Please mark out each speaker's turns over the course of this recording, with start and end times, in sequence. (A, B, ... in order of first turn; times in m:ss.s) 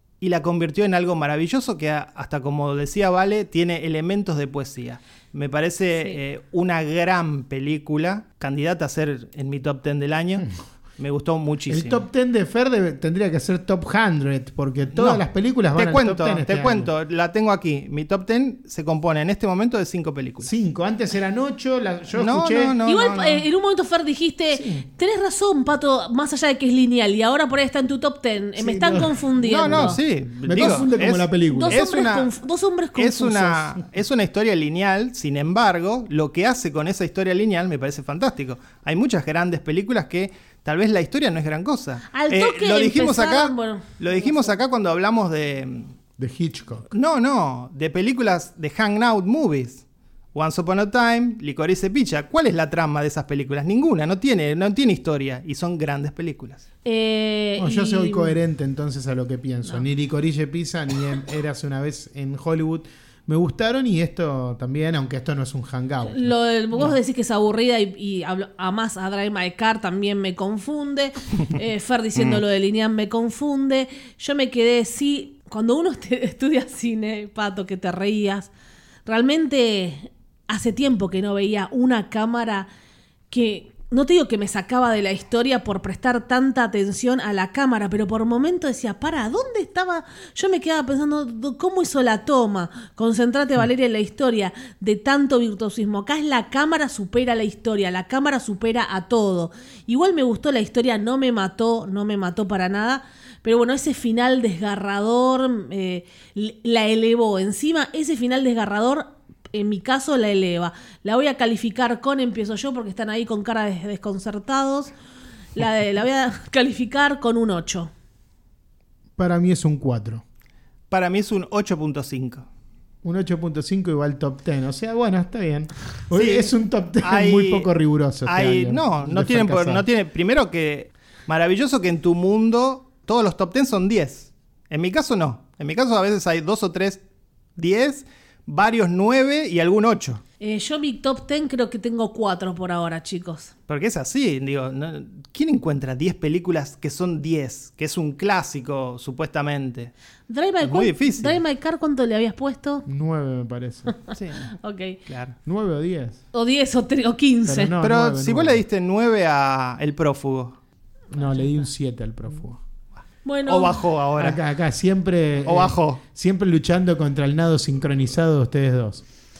0:00.2-0:12.0 A
0:11.7-0:16.9 B
0:14.9-0:15.2 A
0:15.7-0:20.5 A
0:20.4-0:23.4 B
0:22.1-0:23.3 A
0:22.8-0:30.0 C
0:24.5-0:24.8 B
0:28.6-0:31.8 B
0:29.4-0:32.3 A
0:31.5-0:33.7 C
0:33.0-0:45.9 A
0:42.1-0:44.6 C
0:46.2-0:46.9 B
0:46.9-0:56.6 A
0:56.8-0:58.3 C
0:57.6-1:07.0 B
1:06.0-1:18.5 C
1:19.0-1:22.7 C
1:23.3-1:54.9 C
1:55.6-1:57.9 C
1:59.2-2:00.2 B
2:00.9-2:02.4 A
2:03.0-2:09.8 B
2:06.1-2:07.7 A
2:08.2-2:17.0 A
2:17.6-2:20.2 A
2:20.4-2:23.5 C
2:23.7-2:29.9 A
2:30.3-2:32.8 C
2:30.6-2:31.4 A
2:32.8-2:33.9 B
2:34.1-2:34.5 A
2:34.5-2:35.0 C
2:35.0-2:35.4 A
2:35.4-2:36.2 B
2:36.3-2:37.7 C
2:37.4-2:38.6 B
2:37.8-2:40.6 A
2:41.1-2:42.6 B
2:43.2-2:43.8 C
2:43.5-2:44.4 A
2:44.2-2:49.0 B
2:45.4-2:46.0 A